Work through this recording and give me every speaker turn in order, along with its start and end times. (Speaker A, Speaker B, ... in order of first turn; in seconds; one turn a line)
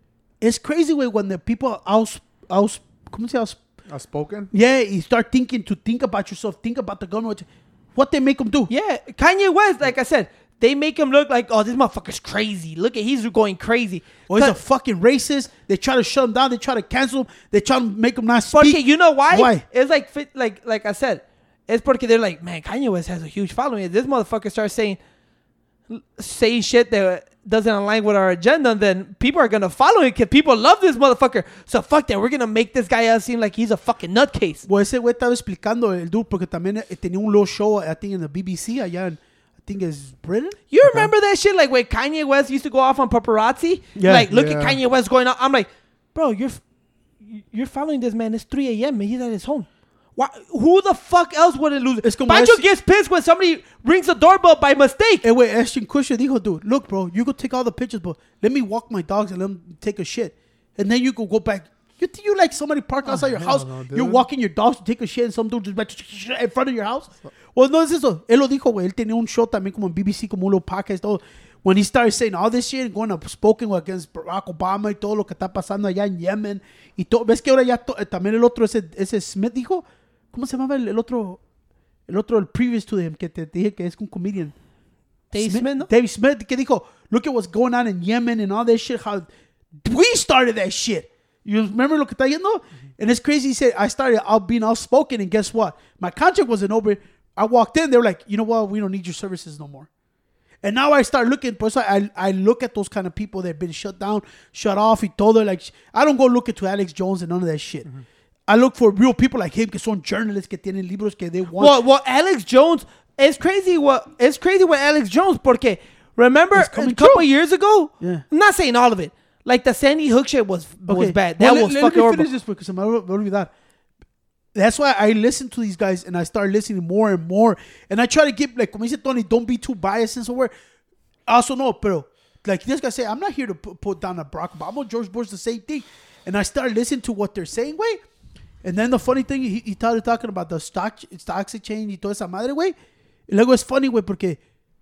Speaker A: 0.4-3.6
Speaker B: 3.9-4.5
Speaker A: 4.5-8.7
Speaker C: 8.7-14.6
Speaker A: 14.3-19.6
Speaker C: 18.5-25.0
Speaker C: 25.9-34.6
Speaker A: 34.7-40.6
Speaker C: 40.7-46.6
Speaker B: 40.9-41.1
Speaker A: 44.0-44.3
Speaker B: 44.3-44.8
Speaker C: 47.2-55.2
Speaker A: 52.0-52.6
Speaker A: 55.2-81.4
Speaker B: 63.1-64.2
Speaker A: 82.1-84.5
Speaker C: 85.3-85.9
Speaker A: 85.4-89.3
Speaker A: 89.8-99.9
Speaker A: 100.6-107.9
Speaker A: 108.5-111.8
Speaker C: 111.6-122.3
Speaker A: 116.5-117.3
Speaker A: 118.0-118.2
Speaker A: 120.9-123.5
Speaker A: 124.5-130.5
Speaker A: 131.3-138.0
Speaker A: 138.6-142.7
Speaker A: 143.3-144.4